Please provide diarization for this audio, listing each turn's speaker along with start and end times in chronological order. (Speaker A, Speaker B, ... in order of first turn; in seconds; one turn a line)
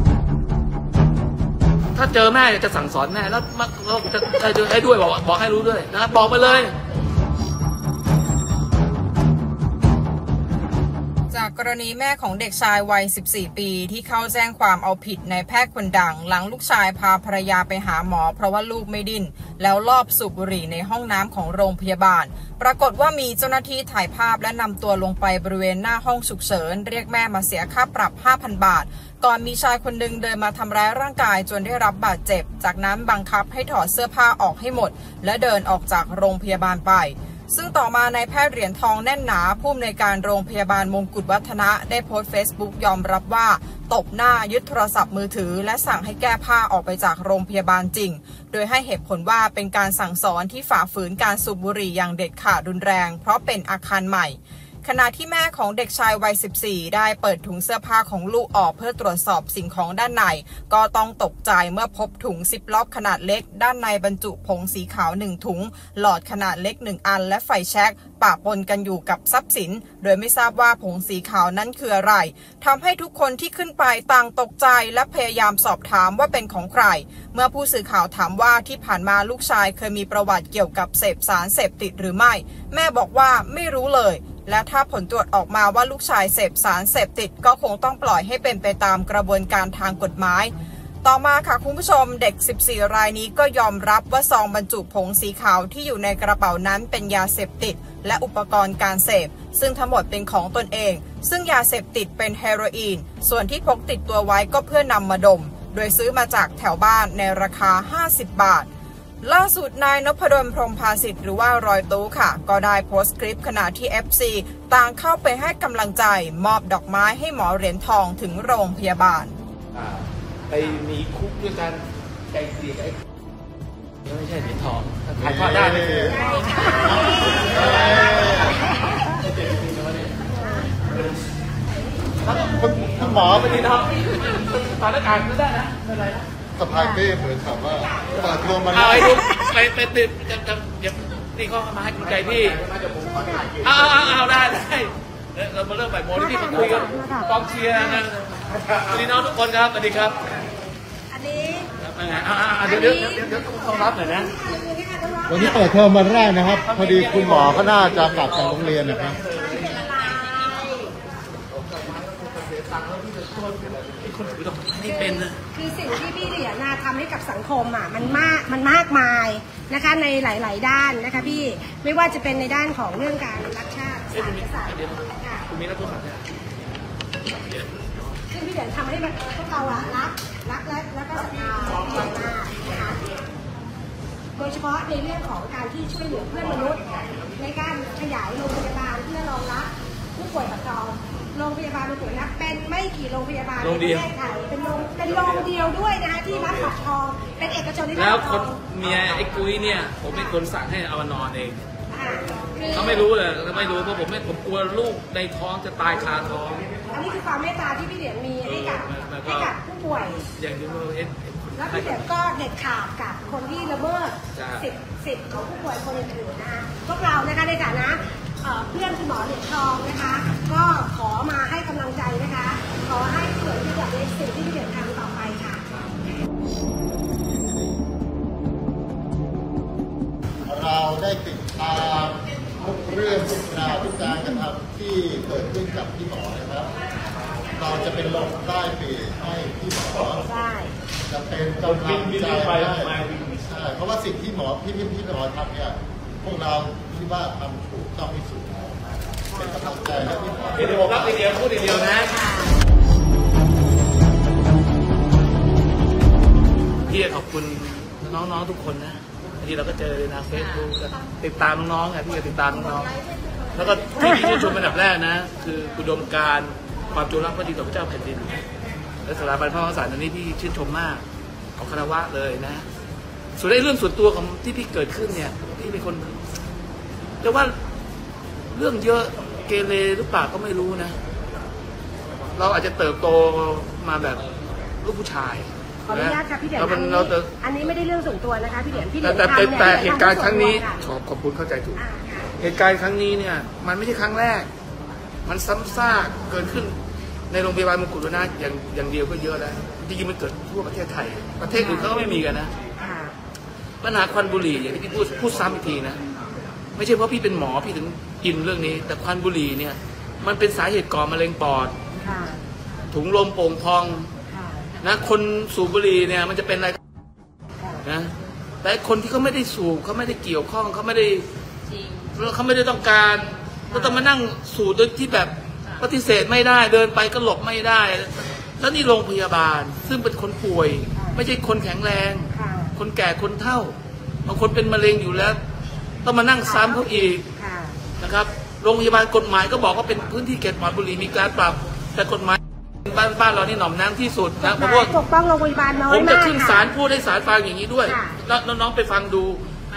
Speaker A: 1.9-6.8
Speaker B: 11.3-108.7
Speaker B: 109.2-119.3
Speaker A: 119.7-123.0
Speaker A: 124.0-126.9
Speaker C: 125.2-126.2
Speaker D: 126.1-128.9
Speaker C: 126.9-128.6
Speaker A: 127.4-128.5
Speaker D: 130.4-130.7
Speaker A: 132.2-136.1
Speaker C: 132.6-133.6
Speaker C: 136.6-139.2
Speaker A: 138.7-142.8
Speaker D: 139.2-139.5
Speaker D: 143.0-143.6
Speaker A: 143.5-150.3
Speaker D: 146.2-148.0
Speaker D: 151.1-151.7
Speaker A: 151.8-154.3
Speaker D: 152.6-156.4
Speaker C: 155.3-159.2
Speaker A: 156.6-159.8
Speaker D: 159.3-160.9
Speaker A: 161.7-165.4
Speaker D: 164.9-175.5
Speaker A: 174.1-176.2
Speaker A: 177.3-177.9
Speaker D: 178.3-183.2
Speaker D: 184.4-198.6
Speaker A: 193.6-194.1
Speaker A: 196.5-196.7
Speaker A: 197.9-201.7
Speaker D: 201.9-203.0
Speaker A: 202.7-206.7
Speaker D: 206.9-210.3
Speaker A: 208.4-209.6
Speaker A: 210.4-212.1
Speaker D: 211.6-225.7
Speaker A: 214.3-214.7
Speaker C: 230.4-236.7
Speaker C: 237.5-240.3
Speaker D: 240.2-240.7
Speaker C: 241.1-251.6
Speaker A: 241.6-243.3
Speaker A: 250.6-252.4
Speaker A: 256.9-262.9
Speaker A: 263.5-268.4
Speaker A: 269.0-271.0
Speaker A: 271.6-272.6
Speaker A: 273.4-276.2
Speaker A: 277.2-277.6
Speaker A: 278.5-280.9
Speaker A: 282.4-284.3
Speaker A: 284.8-287.3
Speaker D: 285.9-290.8
Speaker A: 289.0-291.8
Speaker D: 291.8-292.3
Speaker A: 292.4-294.5
Speaker A: 295.2-296.8
Speaker A: 297.3-302.5
Speaker D: 301.6-302.1
Speaker D: 302.8-303.1
Speaker A: 303.8-306.0
Speaker A: 306.8-311.8
Speaker D: 312.0-312.4
Speaker A: 312.9-314.1
Speaker D: 314.3-314.7
Speaker A: 314.8-316.8
Speaker A: 317.8-321.3
Speaker A: 321.9-335.4
Speaker D: 323.7-324.1
Speaker D: 330.9-331.2
Speaker D: 332.3-332.8
Speaker A: 336.0-337.2
Speaker D: 336.4-337.8
Speaker A: 338.0-344.9
Speaker D: 344.4-346.7
Speaker A: 345.9-349.4
Speaker D: 347.9-348.2